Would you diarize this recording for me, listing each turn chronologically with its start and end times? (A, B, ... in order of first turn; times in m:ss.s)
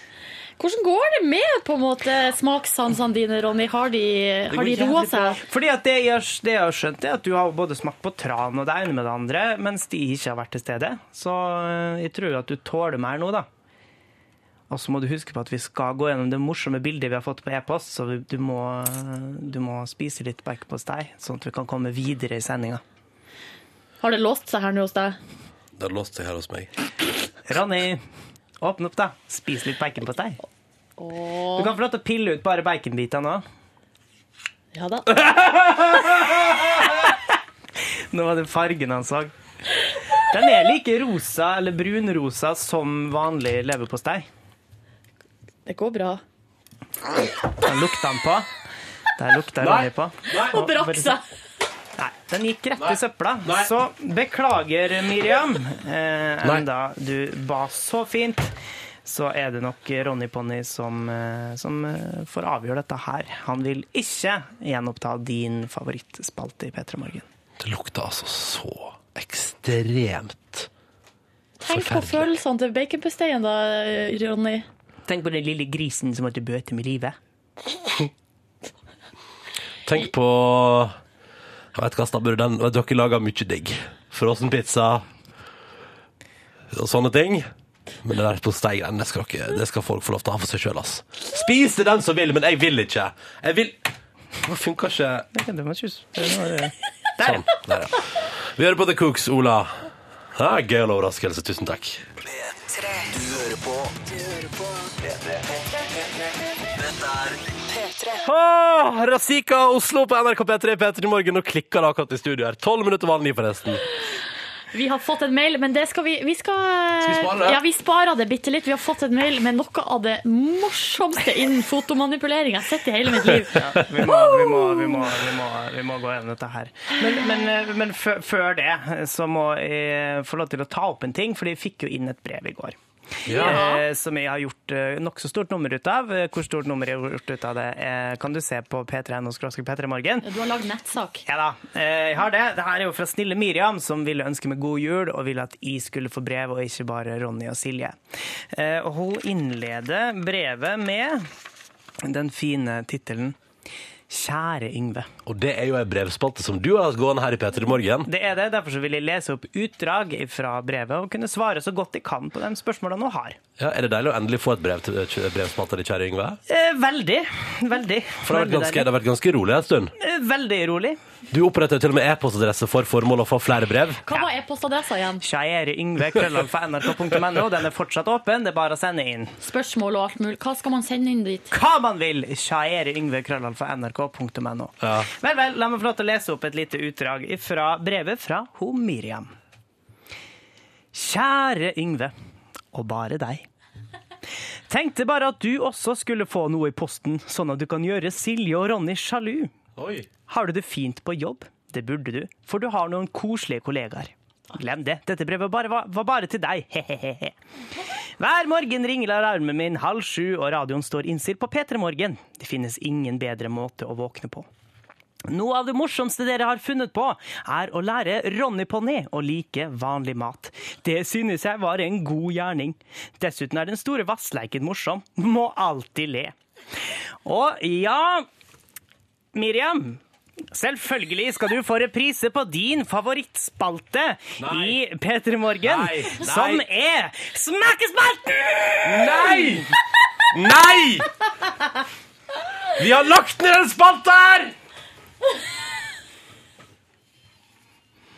0:00.6-0:05.4 A
0:04.5-0:13.5 B
0:14.7-0:22.8 B
0:24.0-0:25.2 A
0:25.8-0:26.7 C
0:27.5-0:28.0 B
0:28.6-0:30.4 B
0:31.0-0:31.7 A
0:31.6-0:33.4 B
0:34.7-0:35.1 A
0:36.8-0:37.1 B
0:38.1-0:39.3 B
0:40.3-0:44.3 B
0:45.7-0:46.2 A
0:47.6-0:48.5 B
0:49.2-0:51.2 B
0:49.6-0:50.5 C
0:50.5-0:51.2 A
0:52.0-0:58.5 B
0:59.0-1:07.2 B
1:07.6-1:10.7 C
1:11.6-1:14.6 A
1:11.7-1:12.3 C
1:15.1-1:17.2 B
1:19.9-1:21.0 C
1:21.7-1:25.1 C
1:26.7-1:27.5 C
1:28.0-1:33.8 C
1:34.4-1:35.3 C
1:35.3-1:37.5 B
1:37.2-1:42.1 C
1:42.5-1:44.0 D
1:46.9-1:48.2 D
1:48.2-1:53.8 C
1:54.7-2:05.0 A
1:57.0-1:57.6 C
2:03.6-2:12.8 B
2:13.3-2:13.6 C
2:13.3-2:20.3 B
2:13.4-2:13.8 A
2:20.2-2:21.2 A
2:21.2-2:28.0 B
2:28.5-2:31.3 B
2:32.0-2:33.4 B
2:34.1-2:35.1 B
2:35.3-2:38.1 C
2:38.1-2:43.4 B
2:43.6-2:46.4 C
2:46.5-2:48.9 B
2:48.2-2:49.9 C
2:50.0-2:51.0 B
2:51.3-2:54.0 C
2:54.0-2:55.2 A
2:55.2-2:59.3 B
2:59.4-3:01.5 A
3:01.5-3:09.3 B
3:10.9-3:12.1 B
3:12.7-3:13.5 B
3:14.7-3:19.5 B
3:19.8-3:20.1 C
3:20.3-3:27.3 B
3:28.2-3:34.5 B
3:35.3-3:48.3 B
3:49.3-3:50.0 B
3:50.5-3:59.5 B
3:54.4-3:54.8 C
3:55.6-3:56.6 C
3:58.8-3:59.7 C
4:00.3-4:01.1 C
4:02.8-4:04.5 C